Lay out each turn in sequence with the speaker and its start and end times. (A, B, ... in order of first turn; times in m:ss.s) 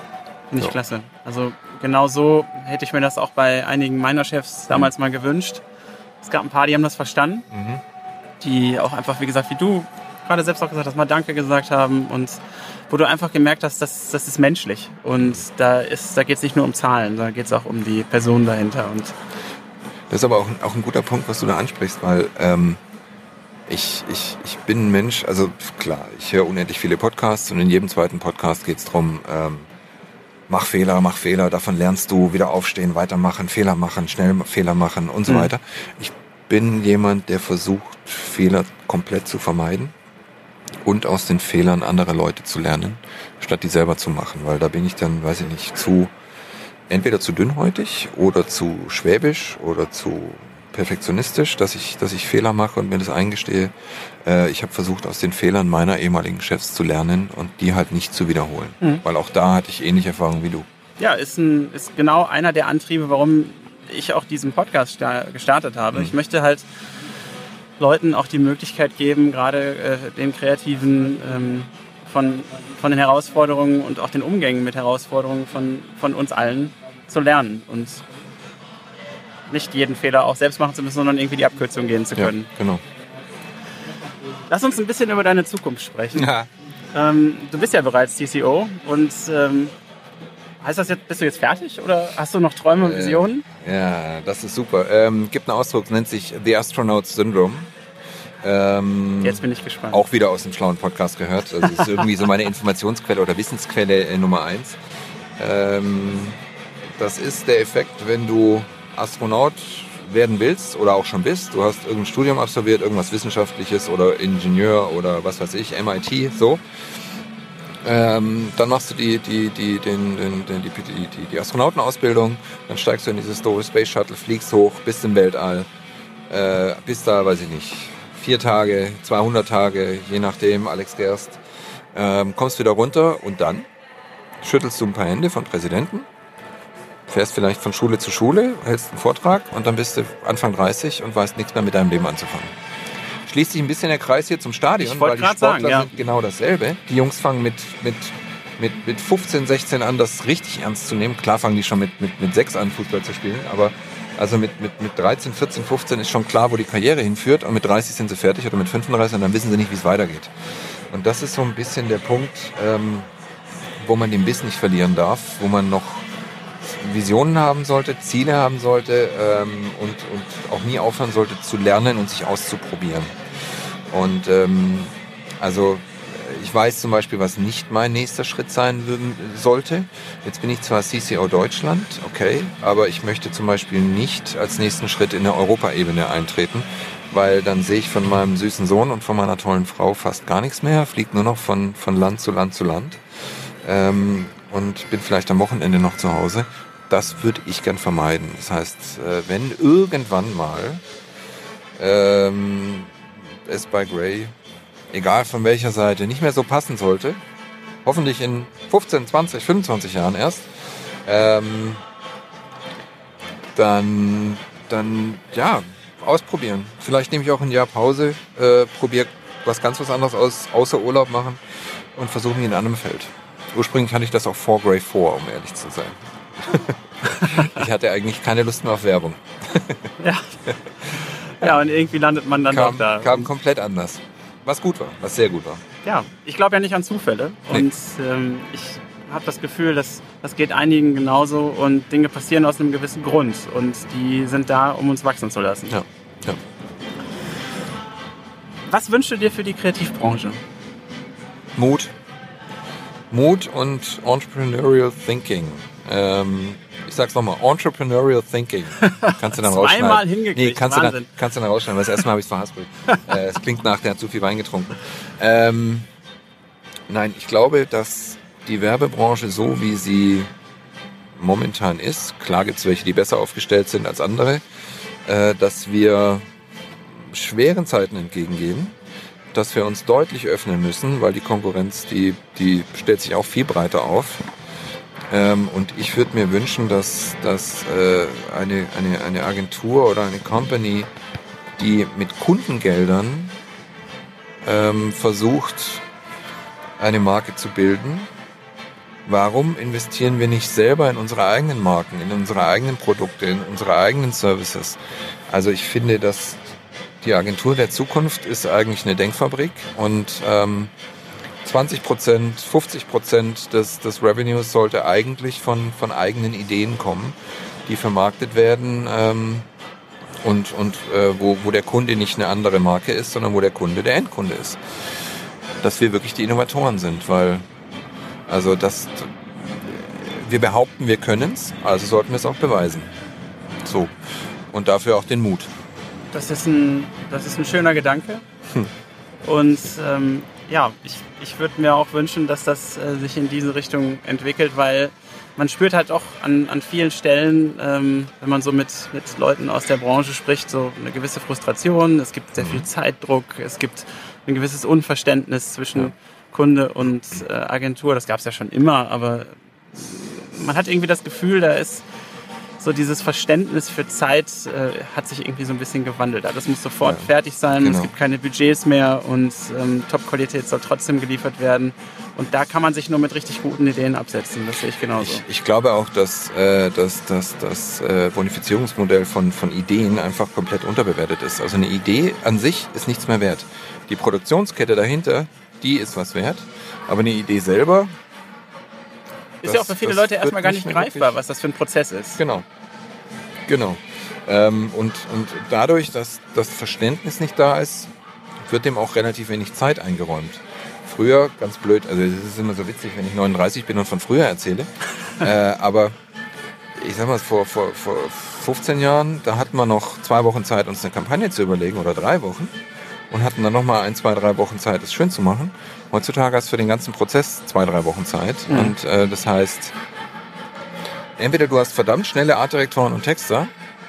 0:00.5-0:05.6 A
0:06.2-0:07.5 A
0:07.5-0:07.8 B
0:08.4-0:19.2 A
0:20.1-0:22.8 B
0:23.7-0:29.7 B
0:30.5-0:39.9 B
0:40.8-0:46.1 B
0:46.9-1:00.7 B
1:01.0-1:06.6 A
1:07.8-1:18.0 A
1:19.5-1:22.5 A
1:22.2-1:22.8 B
1:24.5-1:26.3 A
1:26.1-1:26.5 B
1:26.9-1:29.7 A
1:30.6-1:33.4 A
1:32.8-1:37.7 B
1:38.4-1:44.8 B
1:39.2-1:40.0 A
1:45.4-1:46.4 B
1:46.9-1:56.6 B
1:57.8-2:05.7 B
2:06.3-2:11.4 B
2:11.9-2:13.7 B
2:14.4-2:16.1 B
2:17.1-2:22.6 B
2:23.2-2:40.3 B
2:24.8-2:25.9 A
2:40.9-2:43.1 B
2:43.8-2:46.1 B
2:46.6-2:53.2 B
2:53.9-3:13.0 B
3:13.6-3:20.8 B
3:21.8-3:24.3 B
3:24.9-3:27.2 B
3:27.8-3:30.5 B
3:31.0-3:31.8 B
3:33.6-3:49.9 B
3:47.1-3:47.6 A
3:50.0-3:53.3 A
3:52.5-3:55.6 B
3:55.8-4:05.8 A
4:05.7-4:06.4 B
4:08.6-4:10.4 A
4:11.6-4:11.9 B
4:13.1-4:25.9 B
4:18.8-4:21.1 A
4:26.9-4:30.3 B
4:31.2-4:34.4 B
4:35.0-4:36.2 B
4:36.9-4:38.8 B
4:39.3-4:44.2 B
4:45.1-4:50.9 B
4:51.6-4:53.4 B
4:54.4-4:55.8 B
4:56.8-4:58.1 B
4:59.0-5:04.8 B
5:05.3-5:10.7 B
5:11.4-5:19.5 B
5:20.2-5:25.0 B
5:25.6-5:27.4 B
5:28.3-5:32.9 B
5:33.6-5:33.9 B
5:34.5-5:35.5 B
5:36.1-5:38.2 A
5:39.2-6:01.8 A
5:52.4-5:52.6 B
6:02.6-6:15.2 A
6:06.8-6:07.9 B
6:15.0-6:27.9 B
6:29.4-6:32.2 A
6:29.4-6:31.1 B
6:32.2-6:32.4 B
6:33.5-6:37.9 B
6:38.4-6:45.9 B
6:46.8-6:52.6 B
6:53.1-6:59.8 B
6:58.5-6:58.7 A
7:01.2-7:03.5 B